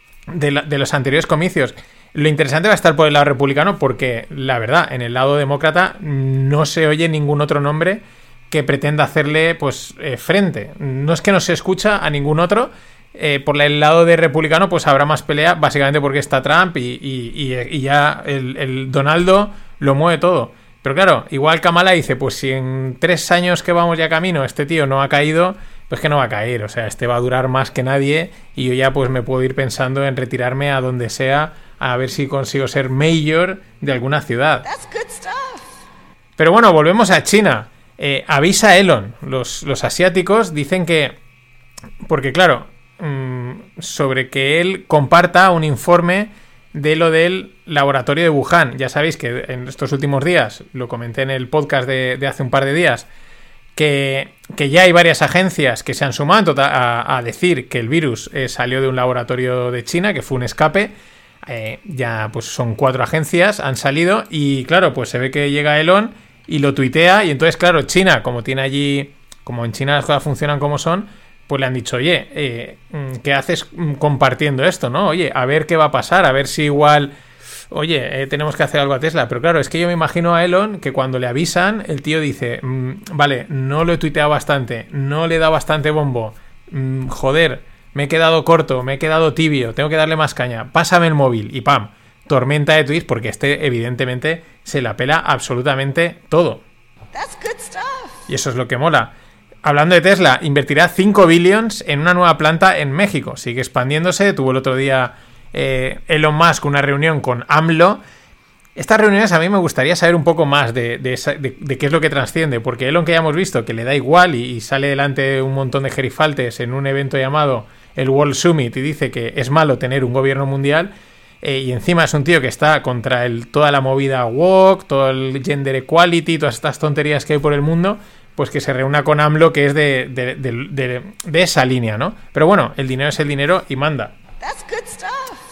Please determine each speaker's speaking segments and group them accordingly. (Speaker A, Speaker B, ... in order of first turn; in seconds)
Speaker A: 0.3-34.7, 36.4-41.2, 42.0-53.1, 53.8-77.1, 77.7-96.6, 98.3-99.1, 99.6-108.0, 108.8-134.2
Speaker B: 34.6-35.7, 97.1-98.2, 134.4-135.4